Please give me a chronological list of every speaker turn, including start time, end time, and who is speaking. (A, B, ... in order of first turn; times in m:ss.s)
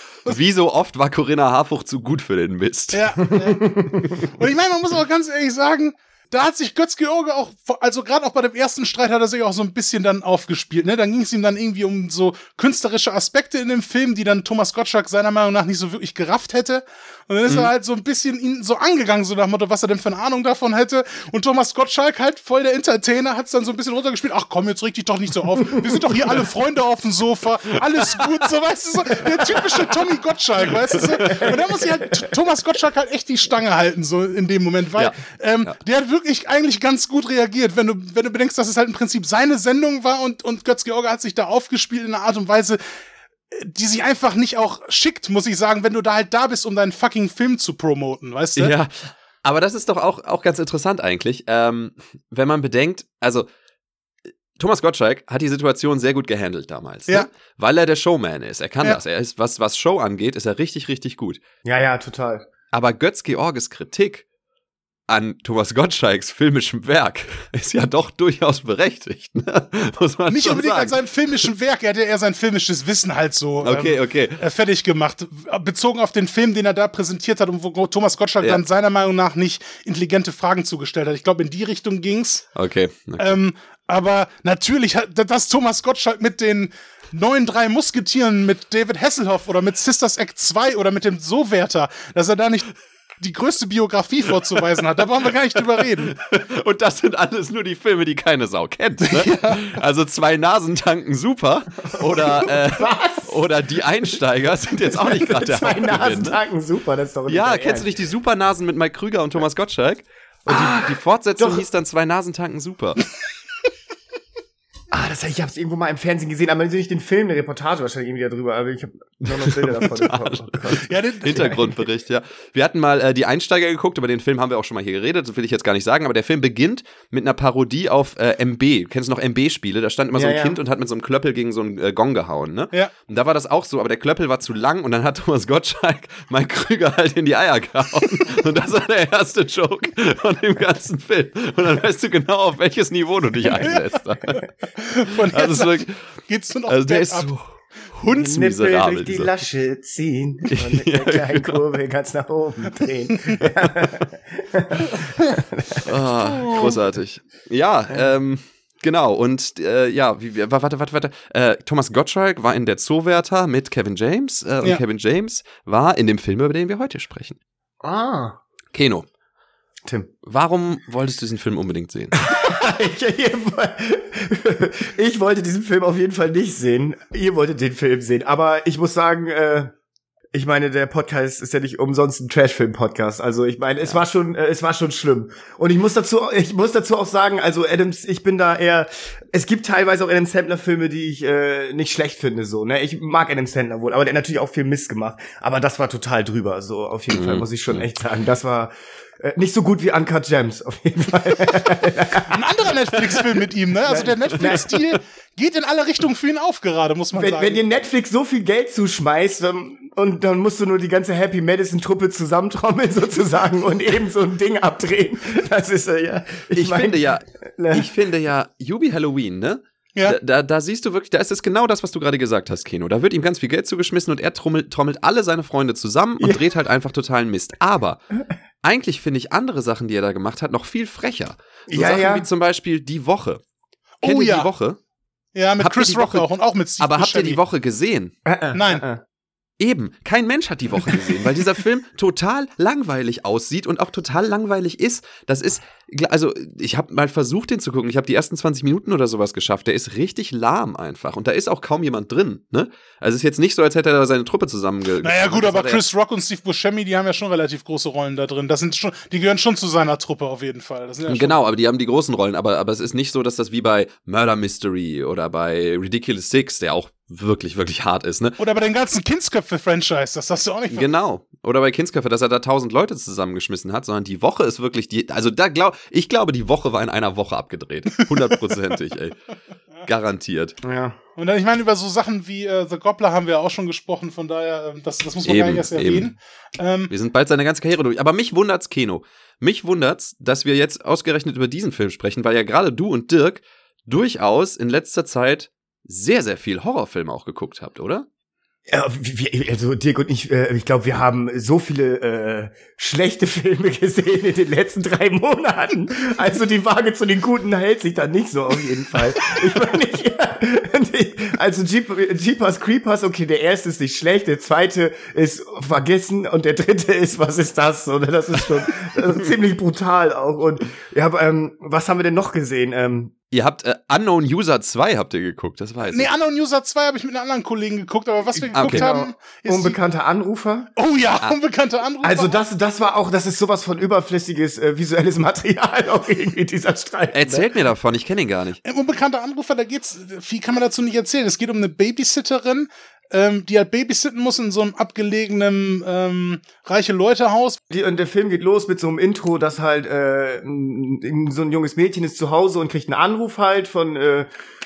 0:00.3-0:03.0 A
0:02.9-0:42.8 B
0:30.8-0:31.4 A
0:31.3-0:31.6 C
0:35.0-0:35.7 A
0:43.5-0:48.7 B
0:48.6-0:53.5 A
0:54.6-1:01.4 A
1:01.6-1:02.5 C
1:02.7-1:04.2 A
1:05.1-1:11.0 A
1:10.3-1:22.5 B
1:13.6-1:14.4 A
1:22.6-1:23.4 A
1:23.2-1:36.2 B
1:36.1-1:46.4 A
1:39.0-1:39.6 B
1:41.9-1:43.5 C
1:44.8-1:47.9 C
1:47.3-1:53.0 A
1:50.5-1:51.6 C
1:54.9-2:01.6 C
1:59.3-2:24.4 A
2:00.8-2:01.8 B
2:10.1-2:10.6 C
2:23.5-2:27.3 B
2:25.3-2:25.9 A
2:26.7-2:27.4 A
2:27.9-2:29.3 A
2:28.0-2:35.9 C
2:30.5-2:31.6 A
2:35.8-2:47.4 A
2:36.3-2:36.7 B
2:47.8-2:48.4 C
2:48.7-2:49.0 A
2:49.8-2:50.1 C
2:50.2-2:52.2 A
2:52.2-2:59.7 C
3:00.3-3:22.4 C
3:17.1-3:17.8 A
3:22.3-3:27.6 B
3:23.8-3:24.7 C
3:24.4-3:24.8 A
3:27.1-3:37.9 C
3:36.5-3:48.0 A
3:48.6-3:53.4 A
3:51.7-3:52.3 C
3:54.0-3:54.5 B
3:54.0-3:54.8 A
3:55.3-3:57.4 B
3:55.6-3:56.3 A
3:56.8-3:58.1 A
3:58.2-3:59.0 C
3:58.5-3:58.8 B
3:59.6-4:15.8 A
4:15.0-4:21.4 B
4:21.0-4:28.4 A
4:28.4-4:30.9 B
4:30.7-4:39.2 A
4:39.8-4:40.5 A
4:40.6-4:41.0 C
4:41.2-4:46.9 B
4:45.2-4:46.1 A
4:46.9-4:58.0 A
4:58.7-5:23.1 C
5:23.3-5:26.1 A
5:25.9-5:29.8 B
5:28.5-5:28.9 A
5:28.6-5:30.7 C
5:30.8-5:32.4 B
5:32.0-5:37.4 C
5:37.1-5:38.6 A
5:38.6-5:47.6 B
5:47.7-5:54.3 C